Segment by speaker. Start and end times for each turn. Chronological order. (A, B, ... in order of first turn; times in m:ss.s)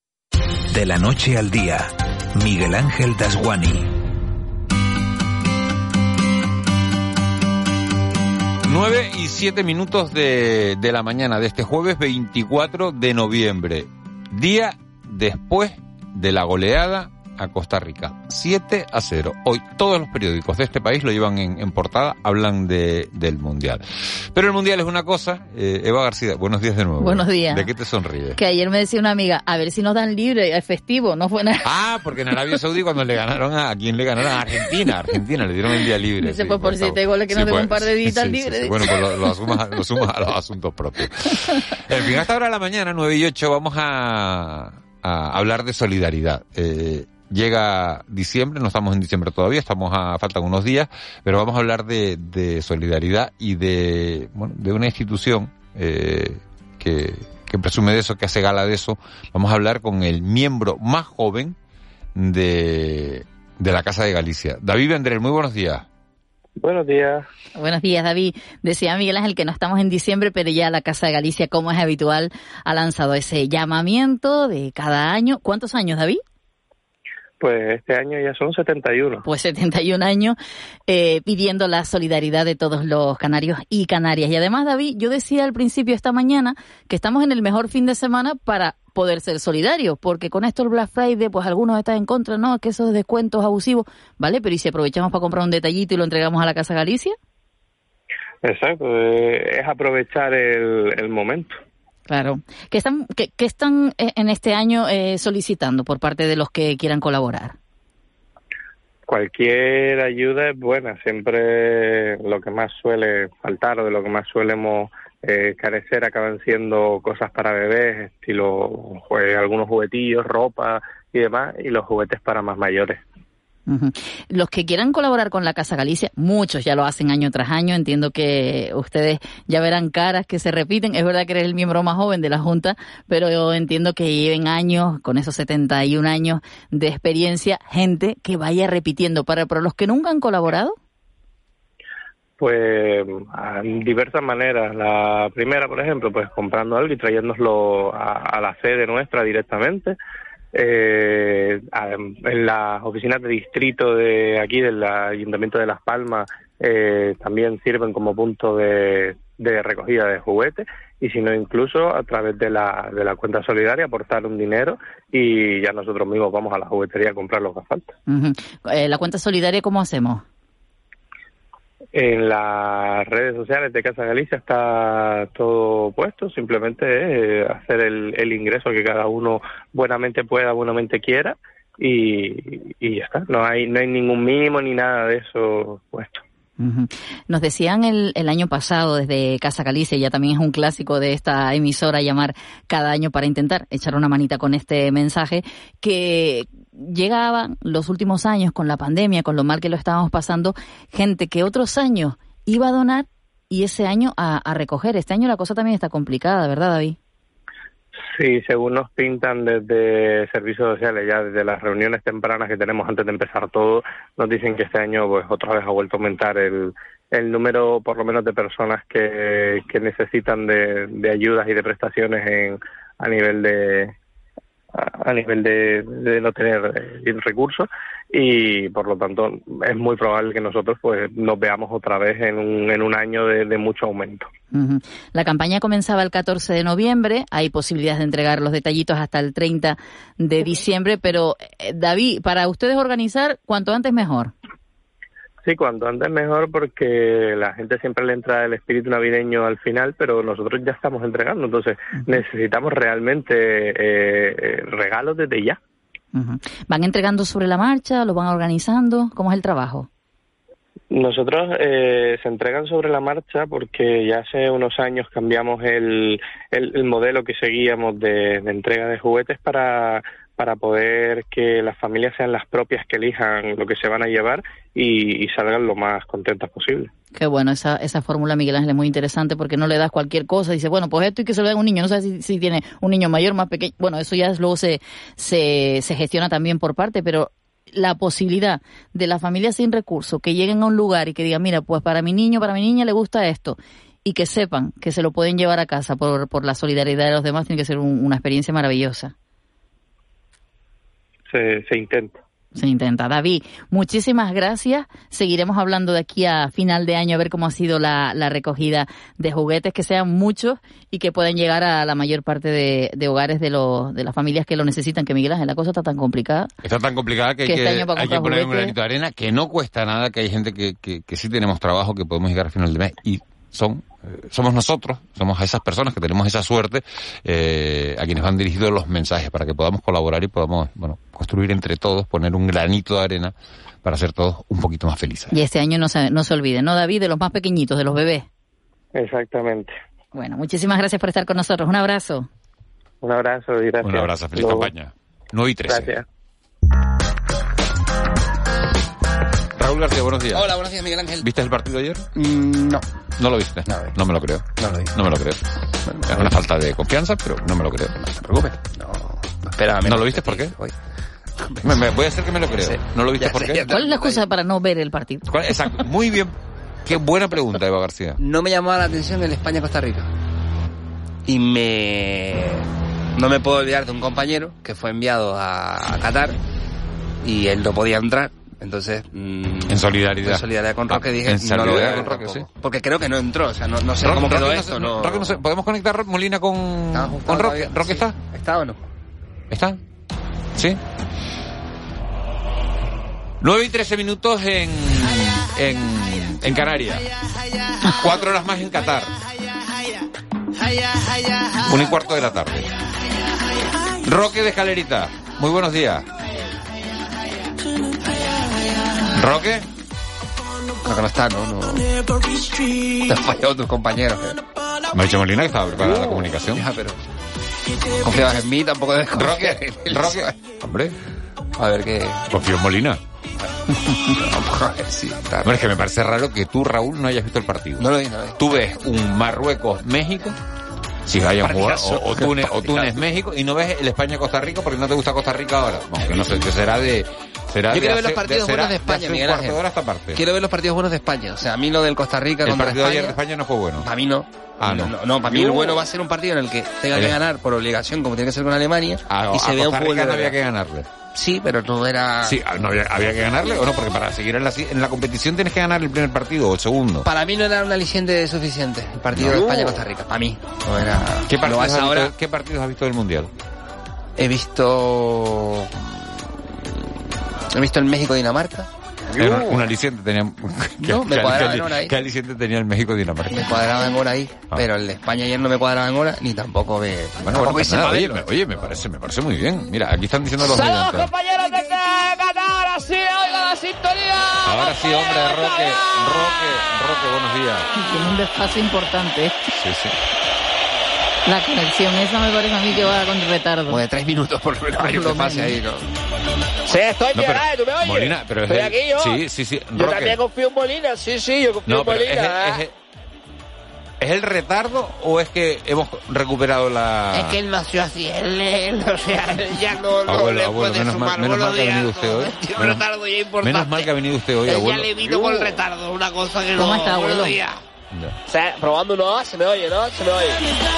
0:00.7-0:03.9 A
0:08.7-0:28.4 B
0:27.0-0:27.7 C
0:28.4-0:31.7 C
0:31.6-1:01.6 B
0:36.2-0:39.2 C
1:02.2-1:05.8 B
1:06.6-1:07.3 D
1:07.6-1:16.2 C
1:17.4-1:19.2 D
1:19.2-1:20.4 C
1:20.9-1:37.2 C
1:38.4-1:41.6 D
1:42.1-1:47.6 C
1:49.1-2:03.0 D
2:03.7-2:20.8 C
2:22.4-2:30.0 D
2:30.5-2:47.9 D
2:48.1-2:50.2 C
2:51.9-3:06.2 D
3:06.6-3:27.0 C
3:28.2-3:43.9 D
3:44.7-3:54.3 D
3:54.5-4:04.3 C
4:05.4-4:15.6 D
4:16.1-4:19.9 C
4:20.9-4:36.9 D
4:37.1-4:59.1 C
5:01.3-5:02.2 D
5:02.6-5:16.5 C
5:16.6-5:35.3 B
5:17.4-5:18.7 C
5:35.3-5:38.3 C
5:39.0-5:39.7 D
5:40.1-5:42.3 C
5:43.0-5:44.7 D
5:43.8-5:46.0 B
5:45.7-5:46.0 D
5:49.6-5:50.6 B
5:50.3-5:51.3 E
5:51.2-5:52.1 B
5:52.2-5:52.8 E
5:53.2-5:55.4 B
5:53.7-5:54.0 E
5:54.6-5:54.9 E
5:55.9-5:56.3 E
5:56.1-5:58.0 B
5:58.0-6:00.7 E
5:59.8-6:00.6 B
6:01.5-6:01.8 E
6:01.6-6:03.7 B
6:02.6-6:04.2 E
6:03.6-6:05.3 C
6:05.3-6:08.2 B
6:08.2-6:10.1 E
6:11.3-6:12.6 E
6:13.2-6:16.4 E
6:17.2-6:25.4 E
6:19.7-6:22.5 B
6:24.0-6:28.2 B
6:26.9-6:28.8 E
6:29.5-6:29.8 B
6:33.4-6:37.0 B
6:37.9-6:39.1 B
6:41.6-6:42.7 B
6:44.0-6:46.1 B
6:49.2-6:49.7 B
6:50.8-6:51.9 E
6:53.0-6:54.4 E
6:54.9-6:56.6 B
6:55.8-6:57.0 E
6:58.0-7:00.3 E
6:59.2-7:01.0 B
7:01.6-7:02.2 E
7:02.3-7:03.0 B
7:04.1-7:05.6 E
7:05.4-7:10.4 B
7:07.8-7:08.4 E
7:11.1-7:20.2 B
7:11.4-7:13.0 E
7:17.7-7:19.6 E
7:20.1-7:23.2 E
7:22.4-7:23.9 B
7:23.8-7:30.4 E
7:24.6-7:25.8 B
7:29.1-7:30.9 B
7:31.2-7:32.4 E
7:32.2-7:37.1 B
7:37.0-7:42.1 E
7:39.1-7:39.5 B
7:41.3-7:43.3 B
7:44.2-7:46.0 E
7:47.5-7:48.7 E
7:49.2-7:53.5 B
7:50.8-7:51.9 E
7:53.3-7:58.2 E
7:57.2-8:01.1 B
8:00.4-8:06.3 F
8:04.4-8:07.7 B
8:07.7-8:09.4 C
8:09.5-8:10.0 B
8:11.3-8:13.8 C
8:13.7-8:15.9 E
8:14.8-8:15.6 C
8:16.7-8:19.2 F
8:17.2-8:20.2 B
8:19.8-8:22.6 F
8:21.7-8:22.7 B
8:24.0-8:27.4 B
8:27.1-8:33.9 F
8:30.1-8:32.8 B
8:30.1-8:32.7 E
8:33.4-8:34.9 B
8:34.5-8:37.5 F
8:35.0-8:37.0 E
8:36.6-8:37.4 C
8:38.3-8:40.1 F
8:39.2-8:40.4 E